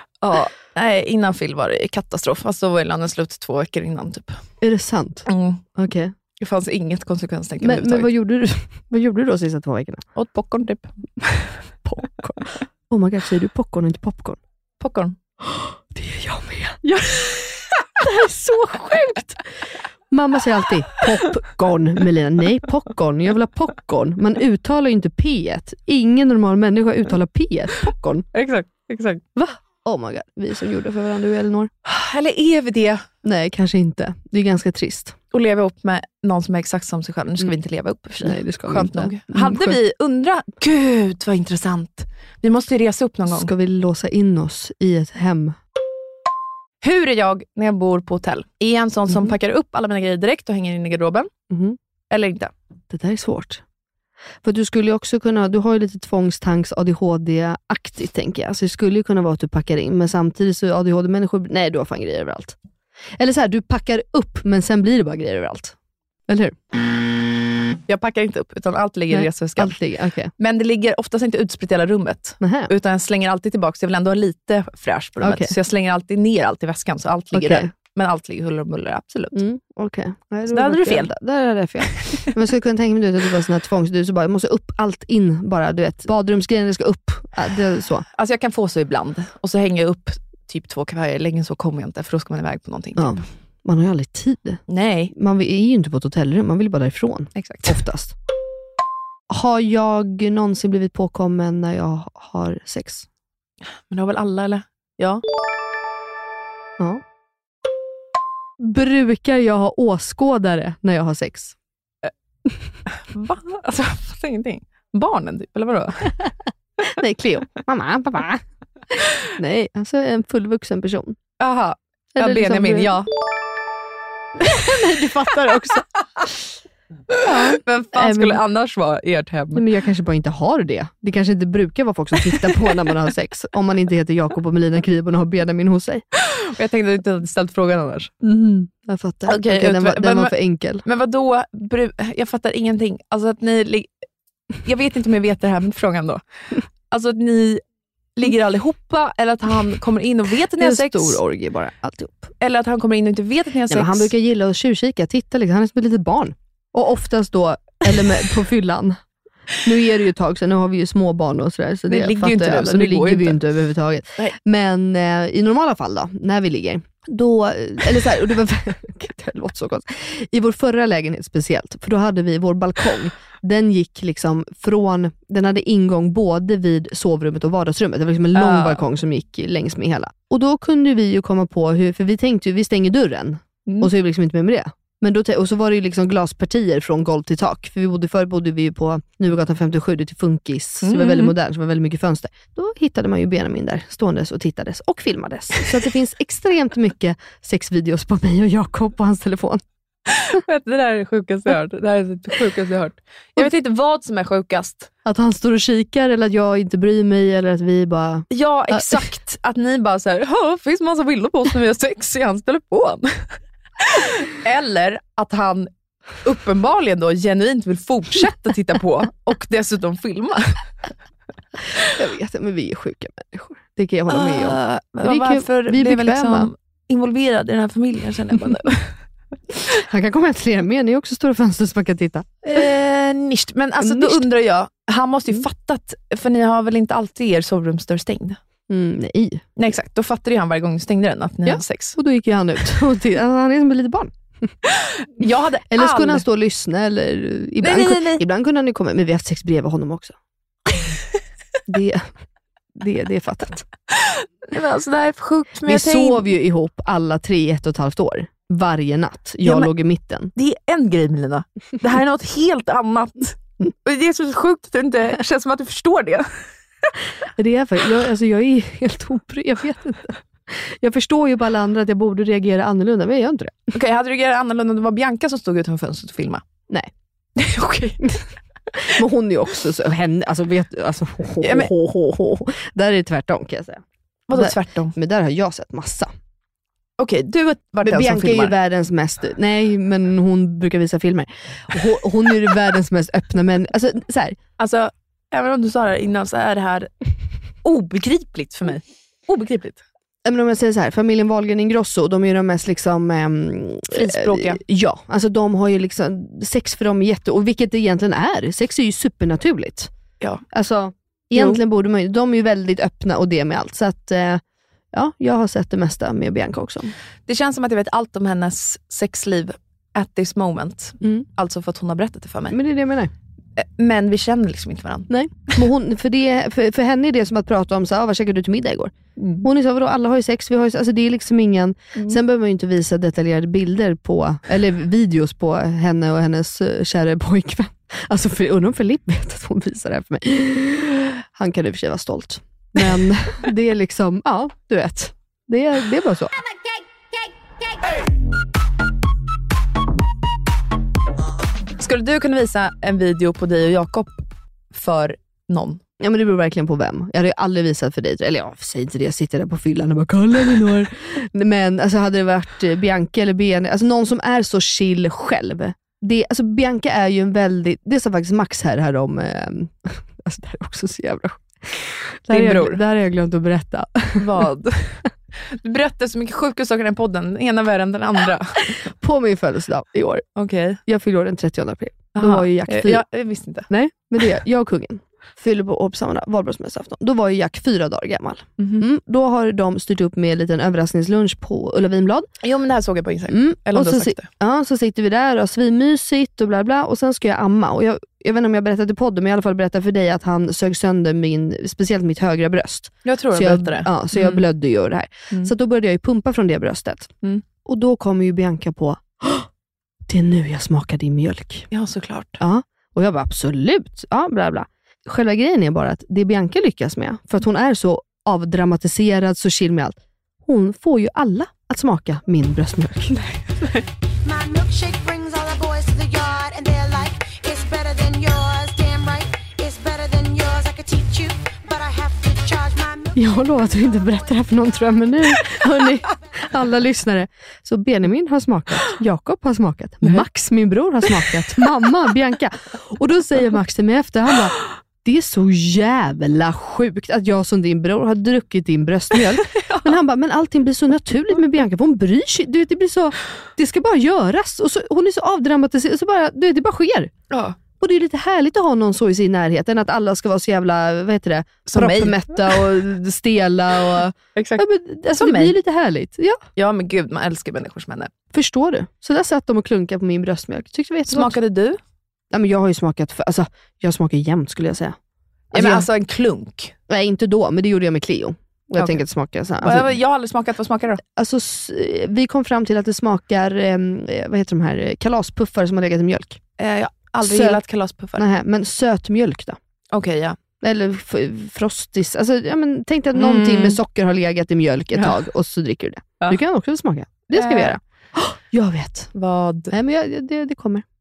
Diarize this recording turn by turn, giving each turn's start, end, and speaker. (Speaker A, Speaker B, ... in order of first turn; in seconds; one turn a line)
Speaker A: 0.2-4.4
Speaker B: 4.6-6.1
Speaker A: 5.3-5.6
Speaker A: 6.4-8.1
Speaker B: 7.6-10.0
Speaker A: 10.1-11.5
Speaker B: 11.8-14.4
Speaker A: 14.8-15.2
Speaker B: 15.4-16.8
Speaker A: 16.8-17.7
Speaker B: 18.0-19.4
Speaker B: 20.1-28.3
Speaker A: 28.3-29.2
Speaker B: 29.4-31.7
Speaker A: 31.8-33.0
Speaker B: 33.2-35.2
Speaker A: 35.3-43.5
Speaker B: 38.2-39.8
Speaker B: 43.3-45.6
Speaker A: 46.8-51.3
Speaker B: 51.5-51.8
Speaker A: 52.1-52.5
Speaker B: 52.9-53.6
Speaker B: 54.4-62.5
Speaker B: 63.2-65.7
Speaker B: 66.3-66.6
Speaker A: 67.9-69.8
Speaker B: 69.1-70.3
Speaker A: 70.4-79.4
Speaker B: 72.4-72.7
Speaker B: 75.2-75.5
Speaker B: 77.3-77.7
Speaker B: 79.3-88.0
Speaker A: 80.5-81.1
Speaker A: 81.9-82.2
Speaker A: 88.1-93.2
Speaker B: 93.0-98.1
Speaker A: 94.7-95.1
Speaker A: 97.3-97.8
Speaker B: 99.3-103.0
Speaker A: 103.7-105.2
Speaker B: 108.6-111.5
Speaker A: 113.0-116.2
Speaker B: 116.8-121.2
Speaker A: 121.4-123.1
Speaker B: 122.2-123.0
Speaker B: 124.4-125.8
Speaker A: 124.5-124.7
Speaker A: 127.1-129.7
Speaker B: 127.2-128.4
Speaker B: 129.5-136.0
Speaker A: 136.2-138.1
Speaker B: 138.2-140.8
Speaker A: 139.2-143.9
Speaker A: 144.6-146.2
Speaker A: 146.9-147.6
Speaker A: 148.2-151.2
Speaker B: 150.6-152.3
Speaker A: 152.4-154.1
Speaker B: 153.7-159.0
Speaker B: 159.5-199.6
Speaker A: 161.9-163.4
Speaker A: 178.3-178.8
Speaker A: 183.7-183.9
Speaker A: 190.8-191.3
Speaker A: 200.1-204.9
Speaker B: 205.0-209.0
Speaker A: 208.3-215.7
Speaker A: 216.2-220.7
Speaker B: 221.8-226.5
Speaker A: 224.1-228.9
Speaker B: 229.7-232.6
Speaker A: 232.4-238.4
Speaker B: 233.8-234.2
Speaker B: 238.7-239.5
Speaker A: 239.6-242.0
Speaker B: 241.4-244.5
Speaker A: 244.7-246.2
Speaker B: 245.7-250.1
Speaker A: 247.6-248.2
Speaker B: 251.7-252.1
Speaker B: 252.8-253.7
Speaker A: 253.9-256.3
Speaker B: 255.7-260.3
Speaker A: 259.4-259.7
Speaker A: 260.4-266.9
Speaker B: 267.4-273.7
Speaker A: 273.7-276.4
Speaker A: 277.4-278.1
Speaker B: 278.8-283.8
Speaker A: 281.4-281.7
Speaker A: 284.3-284.9
Speaker B: 284.3-286.1
Speaker A: 287.0-288.6
Speaker B: 287.8-294.4
Speaker A: 294.6-296.9
Speaker A: 297.6-299.8
Speaker B: 300.2-309.9
Speaker A: 303.9-304.6
Speaker B: 310.5-314.4
Speaker A: 311.3-311.6
Speaker B: 314.9-316.9
Speaker A: 317.2-322.6
Speaker B: 322.5-323.1
Speaker A: 323.6-325.6
Speaker B: 325.1-346.3
Speaker A: 329.2-329.5
Speaker A: 351.8-355.8
Speaker B: 356.0-374.4
Speaker A: 372.3-372.8
Speaker A: 374.2-378.8
Speaker B: 378.8-380.3
Speaker A: 380.4-380.8
Speaker B: 380.9-383.0
Speaker A: 382.1-383.7
Speaker B: 383.7-392.3
Speaker A: 388.6-388.9
Speaker A: 392.4-394.3
Speaker B: 393.3-407.1
Speaker A: 403.0-404.4
Speaker B: 407.6-409.5
Speaker B: 410.1-411.7
Speaker A: 411.7-412.4
Speaker B: 412.4-423.4
Speaker A: 423.3-423.8
Speaker C: 424.2-435.6
Speaker B: 433.1-457.1
Speaker A: 449.6-450.0
Speaker A: 457.3-457.6
Speaker B: 457.8-466.4
Speaker A: 461.7-462.7
Speaker A: 464.4-465.6
Speaker A: 466.6-468.1
Speaker B: 468.3-471.4
Speaker A: 471.1-471.8
Speaker B: 472.3-475.0
Speaker B: 475.5-475.9
Speaker A: 475.5-476.8
Speaker B: 476.9-479.9
Speaker A: 478.8-479.0
Speaker A: 479.6-481.0
Speaker B: 481.1-486.4
Speaker A: 486.6-488.3
Speaker B: 487.2-487.6
Speaker B: 488.2-489.6
Speaker A: 489.9-490.4
Speaker B: 490.6-499.1
Speaker A: 493.1-493.8
Speaker A: 494.9-495.2
Speaker A: 497.3-497.8
Speaker A: 499.1-499.8
Speaker B: 499.7-500.9